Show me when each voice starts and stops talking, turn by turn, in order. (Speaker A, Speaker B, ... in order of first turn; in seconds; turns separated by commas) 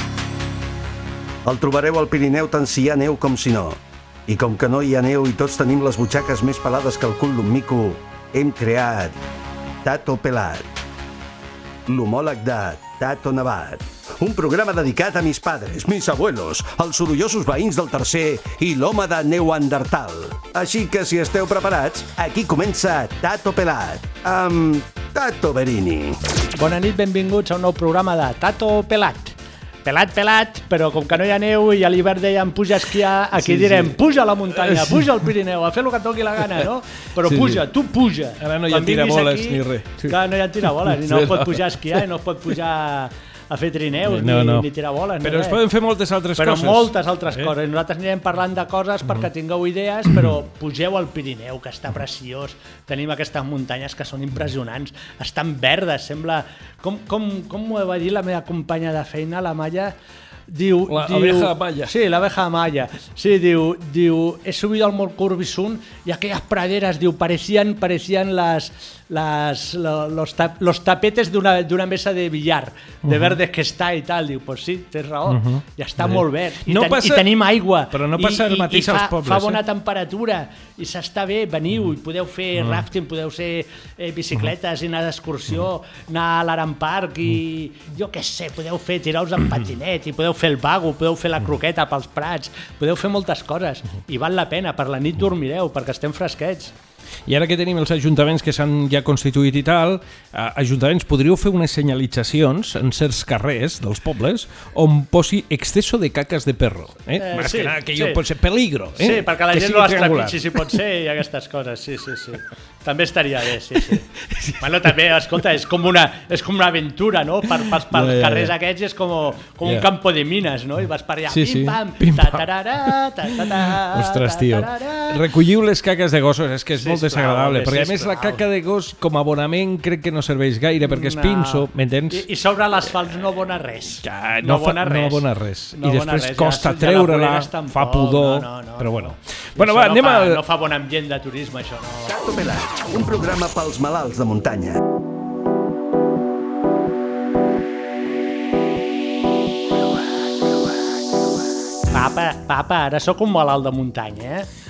Speaker A: 1.4-9.2, Speaker A: 9.8-10.6, Speaker A: 11.8-26.2, Speaker B: 26.5-45.6, Speaker C: 33.4-33.9, Speaker C: 34.6-35.0, Speaker C: 37.2-37.6, Speaker C: 38.4-42.0, Speaker C: 44.0-44.7, Speaker C: 45.2-47.5, Speaker B: 46.4-60.0, Speaker B: 60.5-96.7, Speaker C: 60.9-61.9, Speaker C: 73.0-73.4, Speaker C: 75.3-79.6, Speaker C: 82.5-82.8, Speaker C: 97.3-110.8, Speaker B: 107.2-108.2, Speaker B: 109.0-114.0, Speaker C: 114.2-114.6, Speaker B: 114.6-125.2, Speaker C: 117.6-118.5, Speaker C: 119.6-119.9, Speaker C: 121.3-132.2, Speaker B: 126.7-128.4, Speaker B: 130.8-135.2, Speaker C: 134.0-140.4, Speaker B: 135.8-142.2, Speaker A: 142.0-144.8, Speaker B: 151.9-154.5